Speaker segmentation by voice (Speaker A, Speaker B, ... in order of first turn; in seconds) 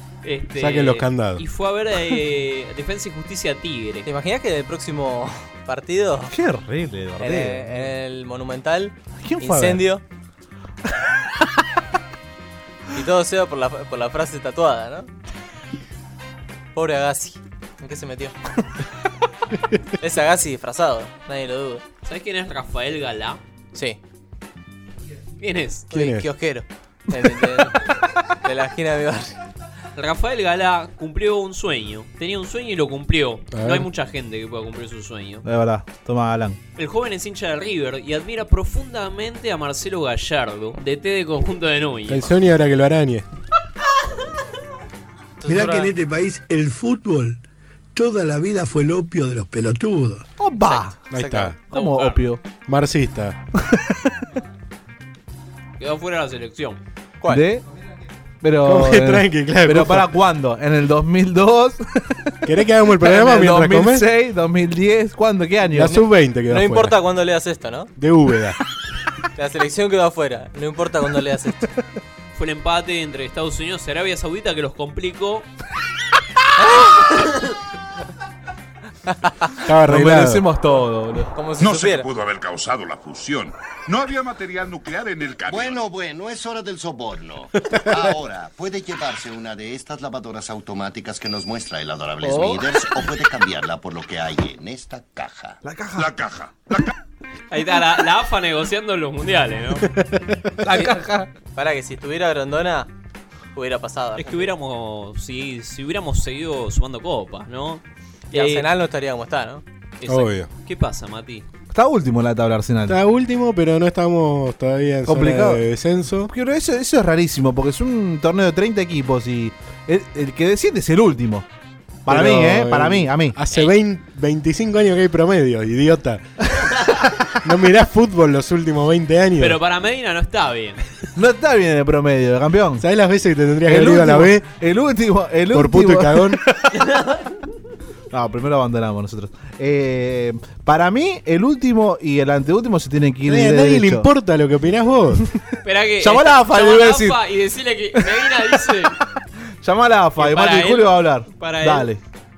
Speaker A: 0.2-4.1, 22.0-23.4, 25.4-25.9, 29.9-35.5, 36.8-42.3, 51.7-52.2, 55.8-56.8, 72.3-75.5, 97.5-99.9, 104.2-108.7, 110.0-111.5, 129.4-130.8, 145.6-149.0, 150.2-151.9
Speaker B: 0.6-1.4, 25.9-26.3, 33.5-33.9, 42.1-43.2, 51.1-51.6, 52.6-53.4, 58.6-60.1, 62.5-64.0, 65.7-67.0, 68.0-68.6, 79.6-80.4, 110.1-110.5, 112.9-116.3, 122.1-126.2, 127.4-129.6, 132.8-134.4, 135.5-136.4, 143.3-145.2
Speaker C: 4.0-6.3, 7.2-10.0, 12.9-15.1, 16.7-18.4, 20.0-21.8, 23.7-24.0, 25.9-27.8, 28.4-29.3, 45.4-45.9, 50.6-51.5, 65.8-67.9, 69.3-71.7, 76.6-77.0, 79.1-79.4, 81.3-82.1, 92.2-92.6, 100.7-101.0, 101.5-102.9, 103.5-104.5, 108.3-109.6
Speaker D: 6.3-7.8, 9.2-9.8, 35.4-36.6, 50.4-51.0, 51.7-52.4, 53.7-54.1, 57.3-57.6, 58.4-66.0, 79.9-81.3, 95.6-96.1, 100.6-101.3, 111.7-113.0, 115.0-115.6, 116.3-121.5, 122.0-123.4, 131.2-132.8, 133.7-136.4, 138.1-144.1, 146.0-147.2, 148.0-148.9, 149.6-152.0
Speaker E: 45.5-47.4, 47.9-50.2
Speaker F: 81.6-85.8, 95.9-96.9
Speaker G: 85.5-95.6